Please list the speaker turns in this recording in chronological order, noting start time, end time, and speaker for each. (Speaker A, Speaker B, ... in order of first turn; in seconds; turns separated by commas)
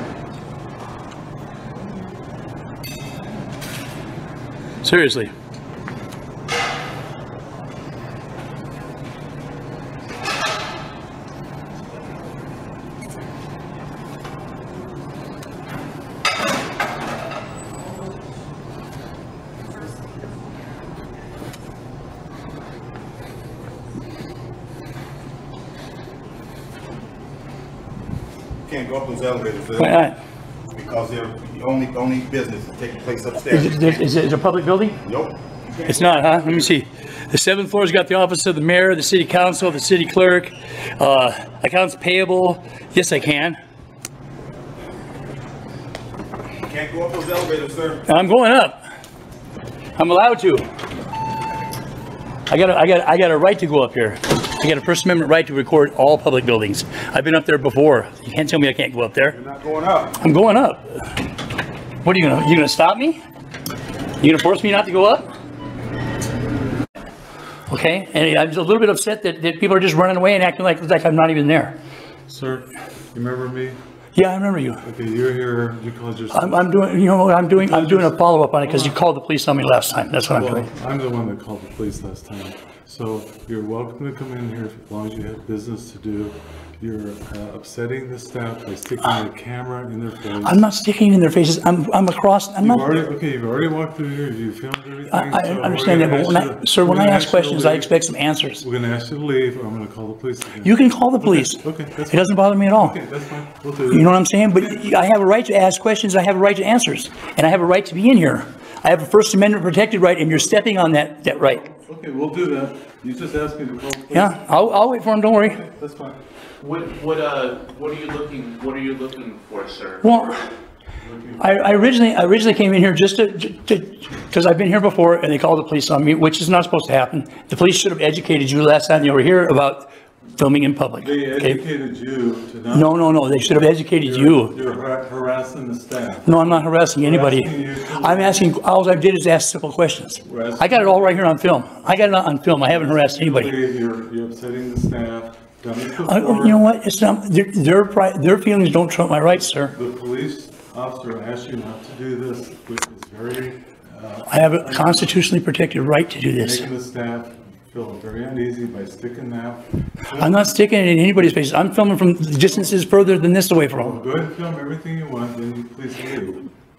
Speaker A: 4.8-5.3, Speaker B: 28.6-30.1, Speaker A: 29.8-30.1, Speaker B: 30.7-34.0, Speaker A: 33.5-35.0, Speaker B: 35.0-36.8, Speaker A: 35.9-43.6, Speaker B: 46.6-48.0, Speaker A: 48.1-48.8, Speaker A: 50.0-50.6, Speaker A: 52.5-59.4, Speaker B: 59.3-60.1, Speaker A: 60.2-60.9, Speaker A: 62.0-63.2, Speaker A: 64.2-65.3, Speaker A: 67.7-71.8, Speaker C: 72.3-73.8, Speaker A: 74.1-74.8, Speaker C: 74.8-76.8, Speaker A: 76.3-80.7, Speaker C: 77.5-79.0, Speaker C: 80.3-90.7, Speaker A: 90.4-92.9, Speaker C: 92.6-98.0, Speaker A: 95.1-98.6, Speaker C: 98.6-105.0, Speaker A: 100.6-103.0, Speaker A: 103.9-111.6, Speaker C: 110.4-110.7, Speaker C: 111.2-116.2, Speaker A: 114.1-115.6, Speaker D: 116.6-120.0, Speaker A: 120.0-120.5, Speaker C: 121.0-121.5, Speaker A: 121.4-131.6, Speaker C: 131.0-138.5, Speaker A: 132.7-134.5, Speaker A: 136.2-143.5, Speaker C: 140.2-146.6, Speaker A: 146.0-149.7, Speaker C: 149.7-155.3, Speaker A: 154.3-156.7, Speaker C: 156.3-160.5, Speaker A: 160.2-164.0, Speaker C: 162.4-162.9, Speaker C: 163.7-166.5